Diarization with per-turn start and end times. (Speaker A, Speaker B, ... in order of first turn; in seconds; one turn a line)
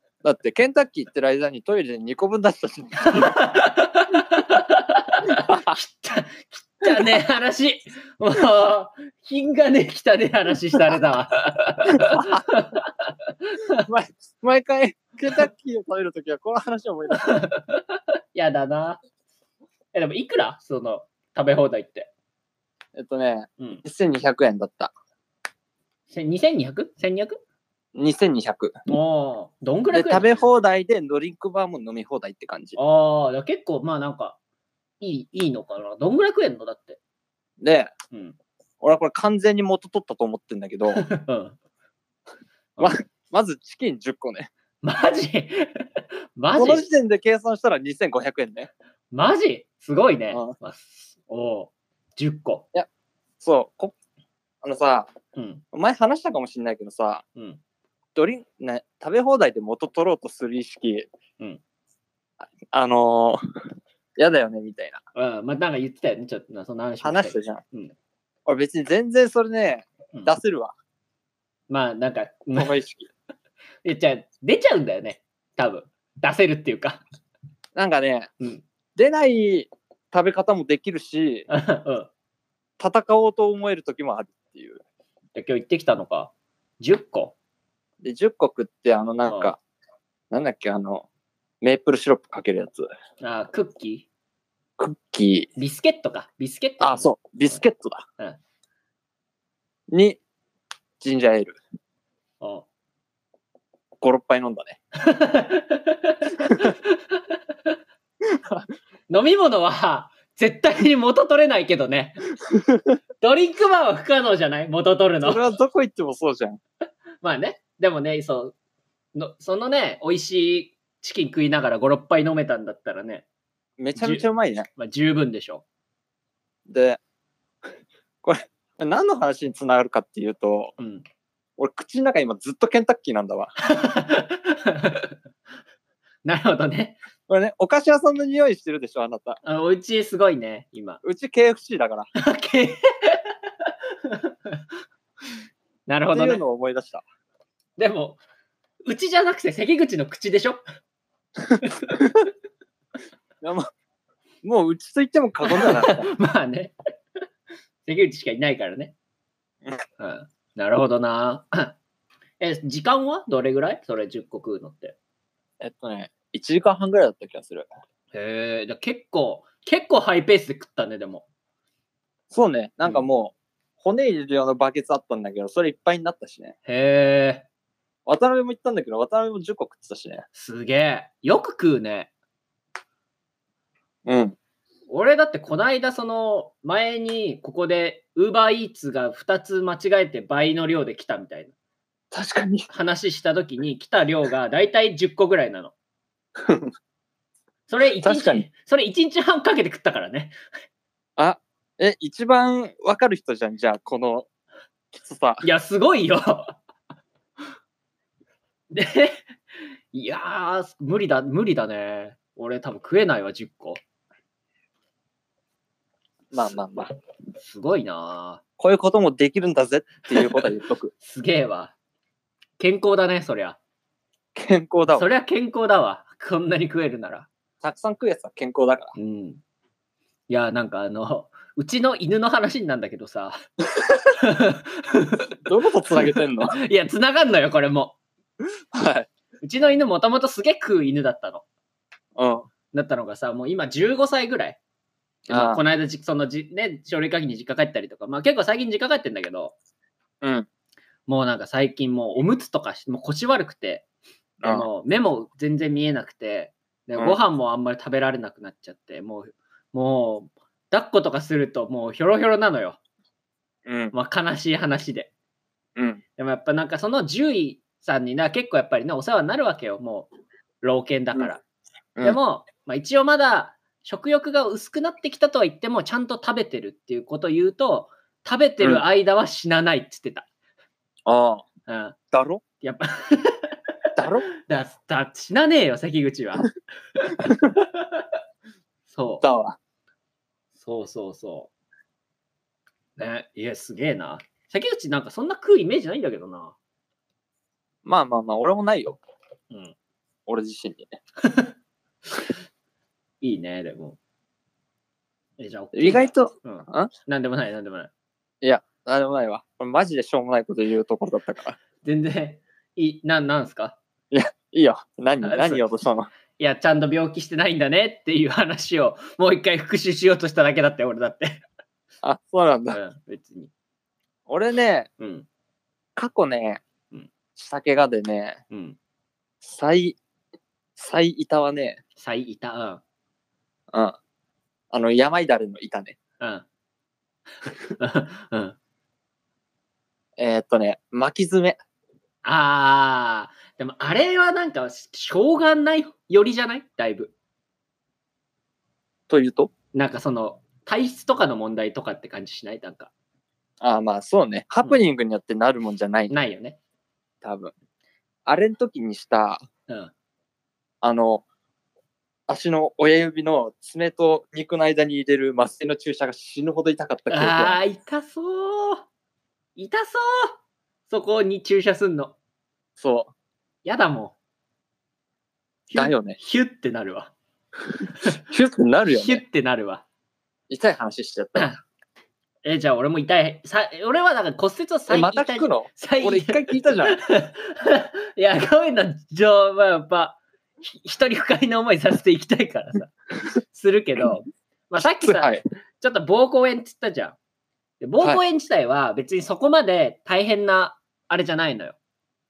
Speaker A: 0.2-3.4
Speaker B: 3.0-13.9
Speaker A: 5.4-5.8
Speaker A: 11.9-12.4
Speaker A: 13.8-17.5
Speaker B: 17.1-19.0
Speaker B: 19.9-22.1
Speaker A: 22.9-24.9
Speaker B: 26.1-27.4
Speaker A: 27.9-28.7
Speaker B: 28.9-30.5
Speaker A: 29.9-32.8
Speaker B: 32.8-34.4
Speaker B: 35.0-37.0
Speaker A: 37.6-37.9
Speaker B: 38.1-38.4
Speaker A: 38.8-41.0
Speaker B: 40.9-41.6
Speaker A: 42.8-44.5
Speaker B: 44.8-46.9
Speaker A: 46.5-48.7
Speaker B: 49.1-52.7
Speaker A: 53.4-53.9
Speaker A: 54.6-55.1
Speaker B: 55.4-55.6
Speaker A: 55.7-57.2
Speaker A: 58.2-61.1
Speaker A: 62.7-63.4
Speaker A: 64.2-65.0
Speaker B: 65.2-67.9
Speaker A: 67.0-67.6
Speaker A: 68.5-70.7
Speaker B: 71.7-72.8
Speaker A: 72.5-73.1
Speaker B: 73.8-77.0
Speaker A: 77.8-78.3
Speaker A: 79.0-81.5
Speaker B: 81.5-82.1
Speaker A: 82.8-84.8
Speaker B: 85.3-87.3
Speaker A: 88.0-89.6
Speaker B: 89.3-89.5
Speaker A: 90.3-91.1
Speaker A: 91.6-92.9
Speaker B: 93.2-94.1
Speaker A: 94.8-95.5
Speaker B: 95.6-97.6
Speaker A: 96.8-98.0
Speaker A: 99.9-100.2
Speaker A: 101.0-101.6
Speaker B: 102.4-102.7
Speaker A: 104.0-104.8
Speaker B: 105.0-107.3
Speaker A: 108.4-108.7
Speaker B: 109.1-112.2
Speaker A: 112.5-113.0
Speaker B: 113.2-115.4
Speaker A: 115.2-116.6
Speaker B: 117.2-118.5
Speaker B: 119.2-123.2
Speaker A: 123.8-124.7
Speaker B: 124.0-124.2
Speaker B: 124.8-125.6
Speaker A: 126.7-127.0
Speaker A: 128.2-130.7
Speaker B: 130.8-131.0
Speaker A: 131.6-133.5
Speaker B: 133.6-135.2
Speaker B: 136.2-137.0
Speaker A: 137.3-139.4
Speaker B: 139.4-141.0
Speaker A: 141.0-142.1
Speaker B: 142.2-144.6
Speaker B: 145.9-146.4
Speaker A: 146.1-147.0
Speaker B: 147.8-148.2
Speaker B: 148.9-150.6
Speaker A: 151.4-152.3
Speaker B: 151.6-152.0
Speaker A: 153.4-153.7
Speaker A: 154.4-156.1
Speaker B: 155.4-156.7
Speaker B: 157.8-158.9
Speaker B: 160.0-161.8
Speaker B: 162.4-164.9
Speaker A: 165.6-167.7
Speaker B: 168.1-171.3
Speaker A: 172.3-176.6
Speaker B: 176.7-177.5
Speaker A: 178.1-180.2
Speaker B: 180.3-182.1
Speaker A: 184.1-184.4
Speaker B: 184.9-191.5
Speaker A: 192.1-192.7
Speaker B: 192.7-195.7
Speaker A: 196.4-196.7
Speaker B: 197.7-200.3
Speaker A: 198.0-198.4
Speaker A: 201.2-204.3
Speaker A: 204.9-205.4
Speaker B: 205.4-206.6
Speaker B: 208.7-209.3
Speaker B: 209.9-213.8
Speaker A: 216.3-216.9
Speaker B: 217.4-218.4
Speaker A: 218.6-220.9
Speaker B: 221.0-221.7
Speaker B: 222.6-223.6
Speaker A: 224.3-225.1
Speaker B: 224.9-227.3
Speaker A: 227.6-228.9
Speaker B: 229.0-229.4
Speaker B: 230.3-233.4
Speaker B: 234.2-235.3
Speaker A: 235.4-236.6
Speaker B: 236.0-238.0
Speaker A: 238.7-239.1
Speaker B: 239.4-241.4
Speaker A: 242.2-242.5
Speaker B: 242.7-244.6
Speaker A: 245.3-245.6
Speaker B: 245.3-249.6
Speaker A: 250.2-250.5
Speaker B: 251.1-253.9
Speaker A: 254.4-254.7
Speaker B: 254.4-262.8
Speaker A: 263.7-263.9
Speaker B: 263.9-265.1
Speaker A: 265.8-266.0
Speaker B: 266.2-270.1
Speaker B: 270.6-271.4
Speaker B: 272.0-280.3
Speaker A: 281.1-281.5
Speaker B: 281.7-282.0
Speaker A: 282.1-282.4
Speaker B: 282.6-283.6
Speaker A: 284.0-284.3
Speaker B: 284.5-287.4
Speaker B: 288.9-289.3
Speaker A: 289.2-289.6
Speaker B: 290.6-291.5
Speaker B: 293.0-296.6
Speaker A: 297.9-299.0
Speaker A: 300.3-301.0
Speaker B: 301.2-301.5
Speaker B: 303.2-304.0
Speaker B: 305.4-307.9
Speaker A: 305.7-306.9
Speaker A: 308.4-311.6
Speaker B: 311.8-313.8
Speaker A: 314.1-316.1
Speaker B: 315.2-315.6
Speaker B: 316.4-321.4
Speaker A: 322.0-322.8
Speaker B: 322.7-323.5
Speaker A: 324.3-324.9
Speaker B: 325.0-325.3
Speaker A: 326.0-326.6
Speaker A: 327.4-328.4
Speaker B: 328.5-328.8
Speaker A: 329.4-330.0
Speaker A: 330.8-331.8
Speaker B: 332.0-332.8
Speaker A: 333.7-334.0
Speaker A: 334.7-336.0
Speaker B: 336.2-336.5
Speaker B: 337.4-338.6
Speaker A: 340.2-341.6
Speaker B: 342.2-347.1
Speaker A: 349.1-349.5
Speaker B: 349.7-352.9
Speaker A: 353.6-356.1
Speaker B: 356.1-356.6
Speaker A: 357.2-357.5
Speaker A: 358.3-359.4
Speaker A: 360.8-361.2
Speaker A: 362.3-367.6
Speaker B: 367.1-368.9
Speaker B: 369.6-370.4
Speaker B: 370.9-372.2
Speaker A: 372.8-373.1
Speaker B: 373.6-374.1
Speaker B: 375.7-377.1
Speaker A: 375.7-376.2
Speaker A: 378.1-379.2
Speaker B: 378.9-379.8
Speaker A: 380.5-381.5
Speaker B: 382.4-397.2
Speaker A: 384.9-387.0
Speaker A: 394.8-395.4
Speaker B: 397.8-401.8